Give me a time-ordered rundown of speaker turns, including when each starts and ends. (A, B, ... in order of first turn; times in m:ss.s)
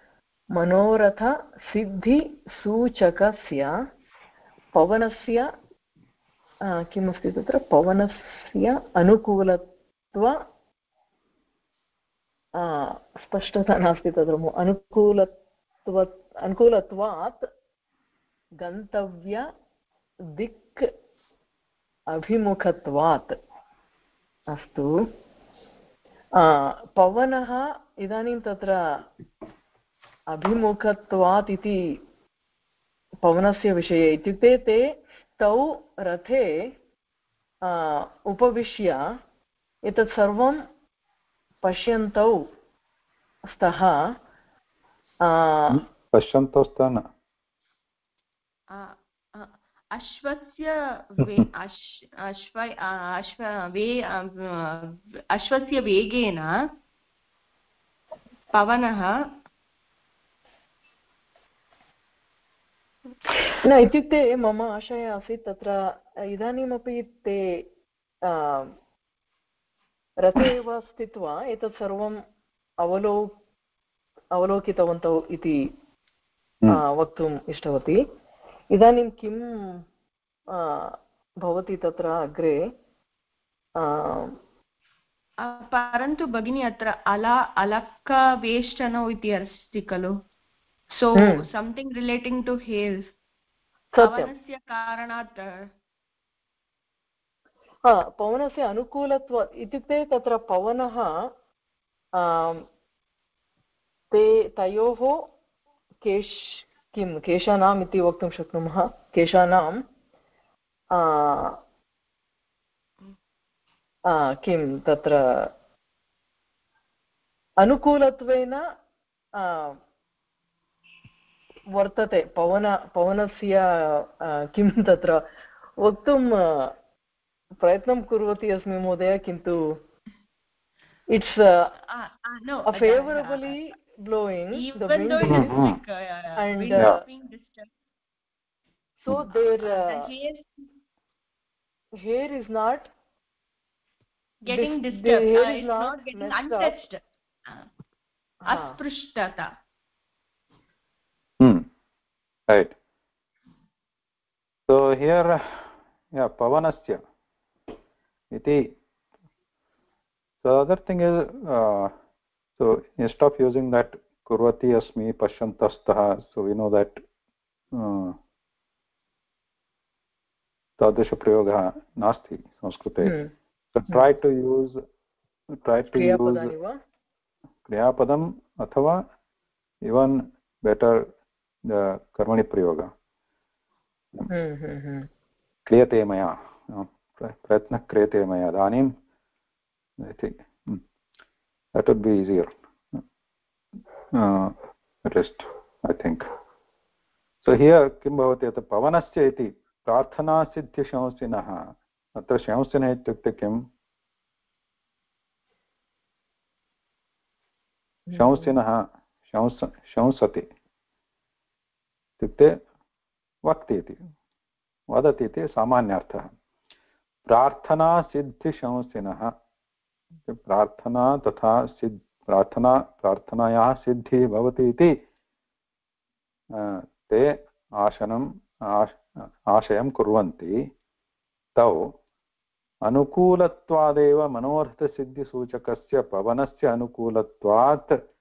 0:00.5-0:03.7 A
0:04.8-0:05.5 A
0:06.7-0:10.4 A
0:12.6-0:15.3 A
0:15.8-0:17.5 A
0:18.6-0:19.5 A
0:20.4-0:20.9 A
0:22.1-0:23.4 A
0:24.5-0:24.9 A
0:26.4-0:29.0 A
0:30.3-0:32.0 A
0:33.2-0:34.8 A
0:35.4-0:36.7 A
0:37.6-0:39.0 A
0:39.8-0:40.6 A
0:41.6-0:42.4 A
0:43.5-0:44.0 A
0:45.2-0:45.8 A
0:45.7-0:47.1 B
0:48.7-0:56.5 C
0:58.5-0:59.1 C
1:03.6-1:07.6 A
1:08.2-1:08.7 A
1:10.2-1:12.2 A
1:12.8-1:13.3 A
1:14.3-1:15.6 A
1:16.7-1:18.0 A
1:18.7-1:19.8 A
1:20.5-1:22.6 A
1:23.8-1:24.4 A
1:25.4-1:30.2 C
1:30.9-1:33.1 C
1:31.2-1:31.4 A
1:34.0-1:34.3 A
1:34.0-1:35.6 C
1:37.8-1:41.1 A
1:42.2-1:42.6 A
1:44.1-1:45.3 A
1:46.0-1:49.8 A
1:50.9-1:51.6 A
1:54.1-1:55.5 A
1:57.6-1:58.6 A
1:59.4-1:59.8 A
2:01.7-2:05.3 A
2:05.8-2:06.7 A
2:07.6-2:09.8 A
2:11.1-2:11.7 A
2:11.9-2:13.7 C
2:12.7-2:15.6 A
2:14.6-2:17.7 C
2:15.3-2:15.8 B
2:16.4-2:17.0 A
2:19.0-2:20.1 A
2:19.3-2:20.5 C
2:22.0-2:22.9 A
2:24.5-2:26.8 A
2:24.5-2:27.7 C
2:28.4-2:28.8 A
2:28.5-2:29.5 C
2:31.4-2:31.7 B
2:32.5-2:32.8 B
2:34.7-2:37.0 B
2:38.3-2:38.8 B
2:40.4-2:42.0 B
2:42.6-2:47.0 B
2:47.7-2:48.2 B
2:50.8-2:53.2 B
2:53.0-2:53.3 A
2:53.7-2:54.8 B
2:55.5-2:56.5 B
2:55.9-2:56.8 A
2:57.6-2:59.0 B
2:59.8-3:01.1 B
3:01.6-3:02.9 B
3:04.3-3:05.1 A
3:05.7-3:08.9 B
3:10.0-3:10.8 B
3:11.8-3:13.0 B
3:14.1-3:16.2 B
3:17.4-3:23.6 B
3:28.1-3:30.5 B
3:32.2-3:32.6 B
3:33.4-3:34.0 B
3:34.9-3:36.3 B
3:37.3-3:39.3 B
3:40.3-3:44.9 B
3:46.6-3:50.6 B
3:51.6-3:51.9 B
3:52.8-3:58.0 B